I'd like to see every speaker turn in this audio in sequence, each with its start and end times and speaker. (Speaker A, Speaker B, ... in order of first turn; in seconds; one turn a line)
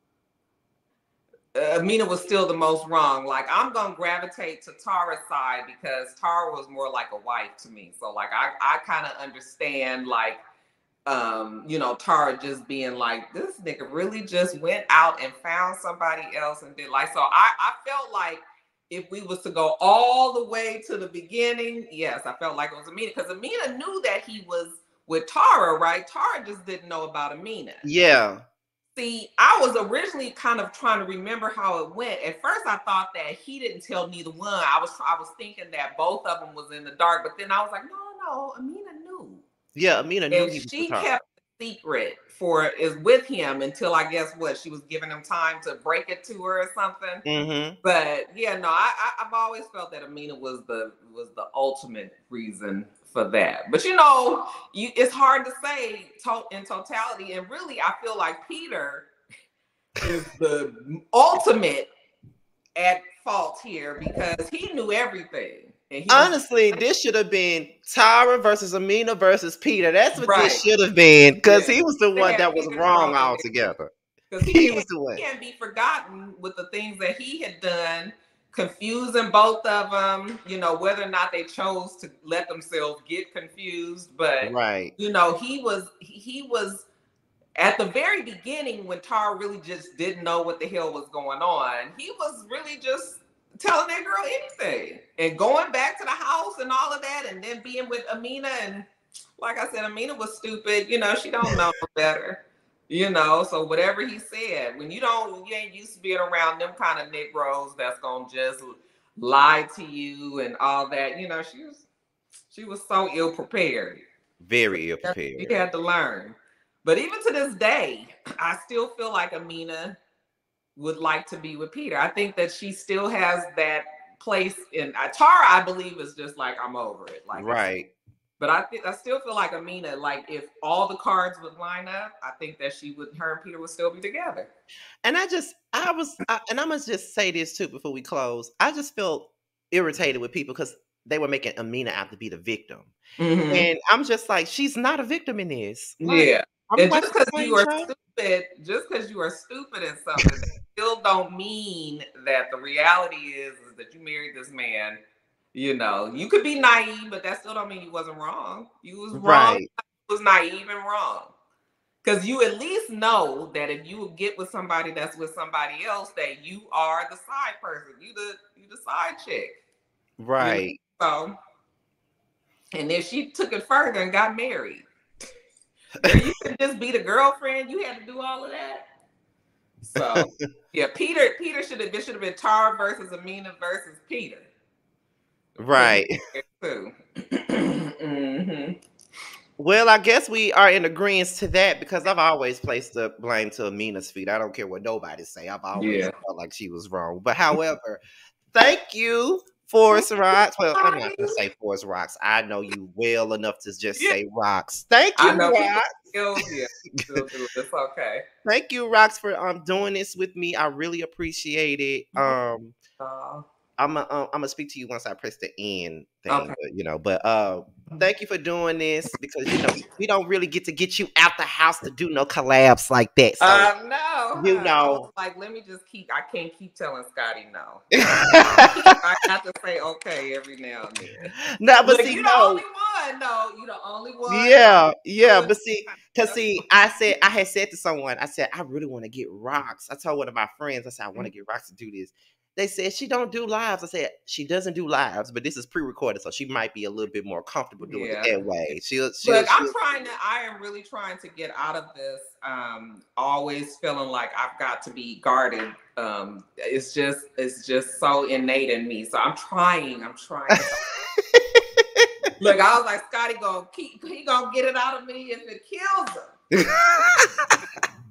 Speaker A: 1.6-10.4
Speaker A: 11.1-27.9
Speaker B: 27.8-28.4
Speaker A: 29.0-39.4
Speaker B: 39.8-41.1
Speaker A: 40.3-47.2
Speaker B: 47.2-47.8
Speaker A: 47.8-59.1
Speaker A: 60.0-61.9
Speaker A: 62.8-66.4
Speaker B: 66.1-73.9
Speaker A: 70.2-70.6
Speaker A: 71.4-73.5
Speaker A: 74.3-86.9
Speaker B: 74.4-75.2
Speaker B: 84.4-84.9
Speaker A: 87.6-111.8
Speaker A: 112.5-114.0
Speaker B: 114.4-115.6
Speaker A: 115.0-120.0
Speaker A: 120.8-127.7
Speaker B: 127.3-127.9
Speaker A: 128.4-134.5
Speaker B: 135.0-142.9
Speaker A: 143.2-143.7
Speaker B: 143.5-147.9
Speaker A: 146.0-155.0
Speaker A: 155.5-161.3
Speaker B: 159.2-159.7
Speaker A: 162.0-169.6
Speaker B: 170.2-170.8
Speaker A: 170.4-171.3
Speaker A: 172.8-174.9
Speaker A: 176.0-178.8
Speaker A: 179.8-184.5
Speaker B: 180.0-180.5
Speaker B: 185.6-186.1
Speaker A: 185.7-188.8
Speaker B: 189.6-198.0
Speaker A: 195.8-196.1
Speaker B: 198.5-205.9
Speaker A: 200.7-201.4
Speaker A: 205.2-208.2
Speaker B: 208.4-212.8
Speaker A: 213.0-213.4
Speaker B: 213.8-223.7
Speaker A: 216.3-216.6
Speaker A: 223.4-227.9
Speaker B: 224.4-225.1
Speaker B: 228.0-228.7
Speaker A: 228.6-231.3
Speaker B: 231.6-232.6
Speaker A: 231.8-235.5
Speaker B: 234.3-250.0
Speaker A: 236.3-236.6
Speaker A: 247.8-248.3
Speaker A: 249.2-260.8
Speaker B: 260.5-262.1
Speaker A: 262.4-266.3
Speaker B: 266.5-267.6